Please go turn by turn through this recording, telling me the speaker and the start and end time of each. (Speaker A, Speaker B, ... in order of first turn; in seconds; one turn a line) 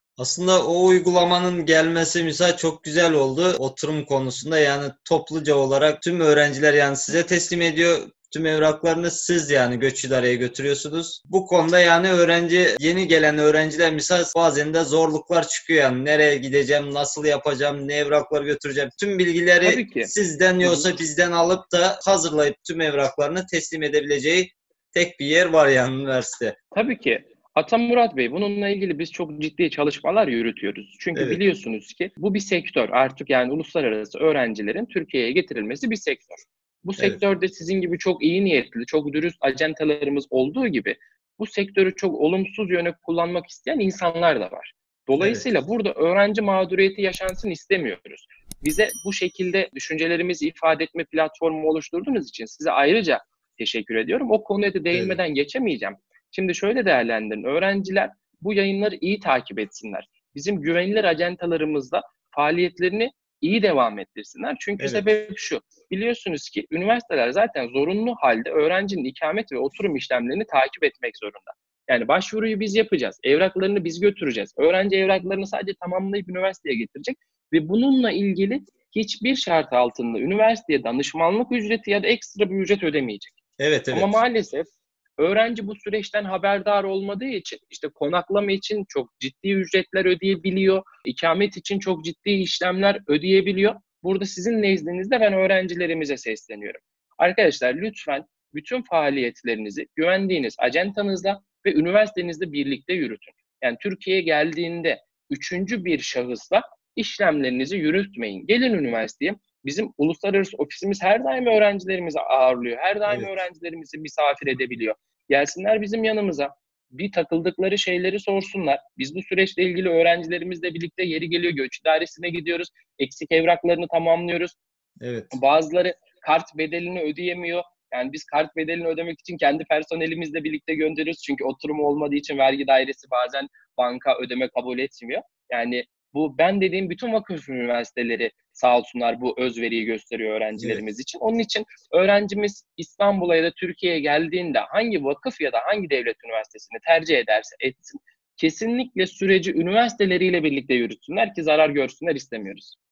Speaker A: 0.2-26.6
Speaker B: 19.6-20.9
Speaker B: 26.7-83.3
Speaker A: 31.1-31.4
Speaker A: 45.2-45.4
Speaker A: 54.9-55.2
Speaker A: 64.8-65.1
Speaker A: 83.6-84.2
Speaker B: 83.9-124.5
Speaker A: 113.1-113.3
Speaker A: 125.0-125.3
Speaker B: 125.3-152.7
Speaker A: 140.6-140.8